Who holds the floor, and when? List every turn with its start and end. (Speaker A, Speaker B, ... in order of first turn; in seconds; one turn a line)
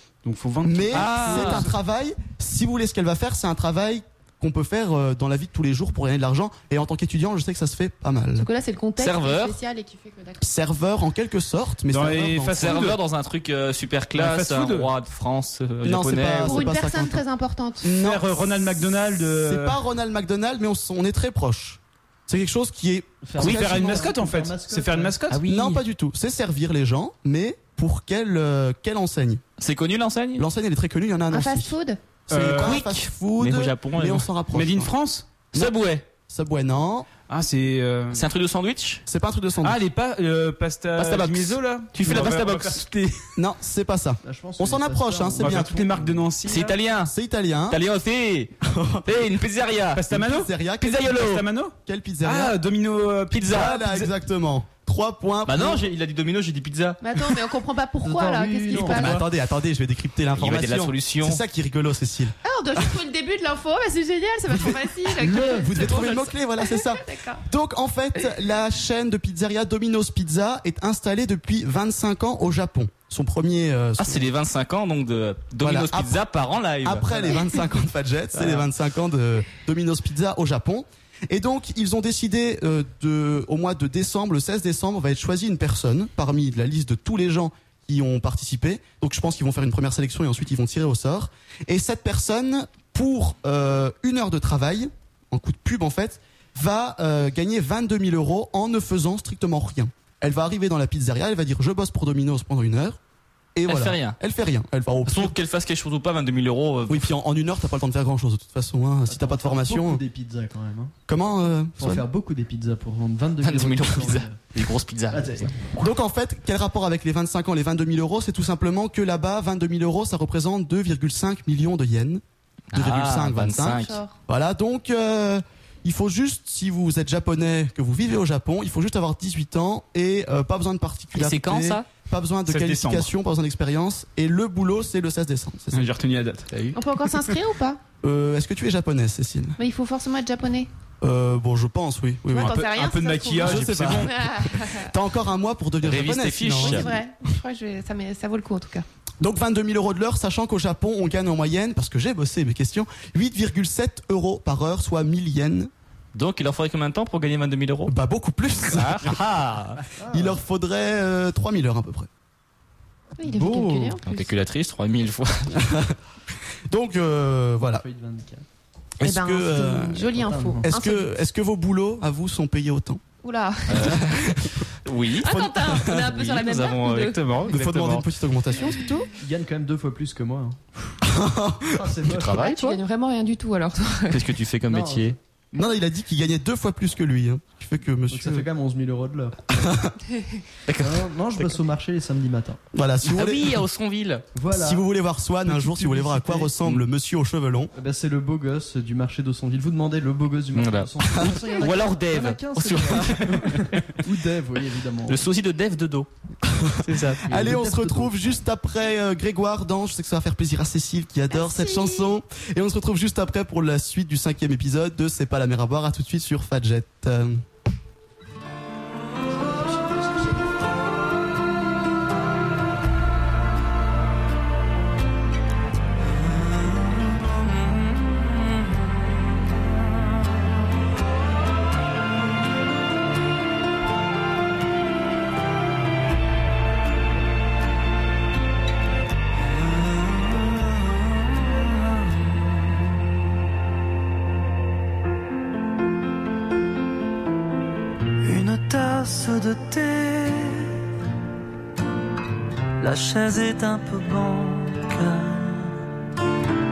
Speaker A: 0.2-1.6
Speaker B: 0.6-8.5
Speaker C: 0.9-1.7
Speaker D: 8.4-10.4
Speaker C: 9.0-9.6
Speaker B: 10.4-12.9
Speaker A: 11.9-13.0
Speaker C: 12.6-16.7
Speaker A: 14.1-14.9
Speaker B: 15.8-17.2
Speaker D: 16.5-17.9
Speaker B: 17.8-24.1
Speaker A: 17.9-19.8
Speaker E: 23.2-25.2
Speaker A: 23.4-25.4
Speaker C: 25.3-25.8
Speaker B: 25.4-29.4
Speaker C: 29.6-30.5
Speaker B: 30.4-31.7
Speaker D: 31.3-32.0
Speaker A: 32.3-32.8
Speaker B: 32.3-34.9
Speaker C: 32.4-34.3
Speaker A: 34.5-35.4
Speaker C: 35.5-36.0
Speaker B: 35.5-37.1
Speaker A: 37.3-38.3
Speaker C: 38.1-39.0
Speaker B: 39.1-39.8
Speaker A: 39.6-43.2
Speaker C: 41.0-42.9
Speaker B: 43.4-46.1
Speaker E: 44.2-46.2
Speaker A: 45.4-46.8
Speaker C: 46.5-47.1
Speaker B: 46.7-47.8
Speaker C: 47.7-48.5
Speaker B: 48.6-49.3
Speaker C: 49.1-50.1
Speaker A: 49.9-54.1
Speaker B: 50.1-51.2
Speaker C: 50.8-51.5
Speaker B: 51.9-52.6
Speaker C: 53.3-53.8
Speaker B: 53.4-55.9
Speaker C: 55.5-57.3
Speaker D: 57.0-59.2
Speaker E: 58.0-59.1
Speaker C: 58.7-59.2
Speaker B: 58.9-62.3
Speaker C: 60.4-61.4
Speaker D: 62.5-67.4
Speaker B: 65.0-74.3
Speaker C: 74.0-77.4
Speaker B: 75.6-76.2
Speaker B: 76.8-103.0
Speaker E: 77.1-77.4
Speaker C: 78.3-78.7
Speaker B: 103.5-105.4
Speaker C: 103.7-104.2
Speaker C: 105.1-107.1
Speaker B: 106.9-110.0
Speaker E: 109.1-110.9
Speaker B: 111.1-112.0
Speaker E: 111.8-114.4
Speaker C: 113.4-115.5
Speaker E: 115.1-115.7
Speaker B: 115.8-122.2
Speaker C: 122.7-124.0
Speaker B: 122.7-135.9
Speaker D: 123.7-124.2
Speaker C: 131.1-131.9
Speaker A: 132.5-133.1
Speaker A: 135.7-136.7
Speaker D: 136.7-137.8
Speaker B: 138.0-139.6
Speaker D: 139.6-140.7
Speaker B: 141.0-142.7
Speaker D: 142.3-144.9
Speaker A: 142.4-144.1
Speaker B: 143.4-147.0
Speaker C: 145.8-146.9
Speaker D: 146.6-148.9
Speaker B: 149.2-155.7
Speaker C: 156.1-157.9
Speaker B: 157.9-159.2
Speaker C: 158.6-159.8
Speaker E: 160.0-160.4
Speaker B: 160.1-162.1
Speaker D: 163.2-164.3
Speaker B: 163.4-163.8
Speaker E: 163.4-163.9
Speaker C: 164.0-165.6
Speaker B: 165.5-166.0
Speaker B: 166.7-167.8
Speaker E: 167.6-168.4
Speaker B: 169.0-173.0
Speaker D: 169.0-171.1
Speaker E: 170.1-170.7
Speaker D: 173.2-174.0
Speaker C: 173.7-178.1
Speaker B: 173.7-174.7
Speaker D: 175.2-177.2
Speaker B: 175.2-176.2
Speaker B: 177.4-179.1
Speaker D: 178.7-179.1
Speaker E: 179.2-181.0
Speaker B: 181.0-182.0
Speaker E: 181.7-182.5
Speaker C: 182.1-182.8
Speaker D: 182.3-184.2
Speaker C: 184.1-185.2
Speaker E: 184.7-185.6
Speaker B: 185.6-188.5
Speaker E: 188.1-189.4
Speaker B: 189.6-189.9
Speaker C: 190.7-191.6
Speaker E: 190.8-192.6
Speaker B: 192.7-193.6
Speaker C: 193.0-194.2
Speaker E: 194.3-194.8
Speaker B: 194.5-197.7
Speaker E: 195.5-196.8
Speaker E: 197.7-205.2
Speaker C: 200.6-203.8
Speaker C: 205.1-206.1
Speaker B: 206.4-217.4
Speaker C: 206.8-207.3
Speaker E: 207.2-208.2
Speaker D: 211.3-212.1
Speaker F: 239.7-241.7
Speaker F: 248.2-250.8
Speaker F: 252.8-255.8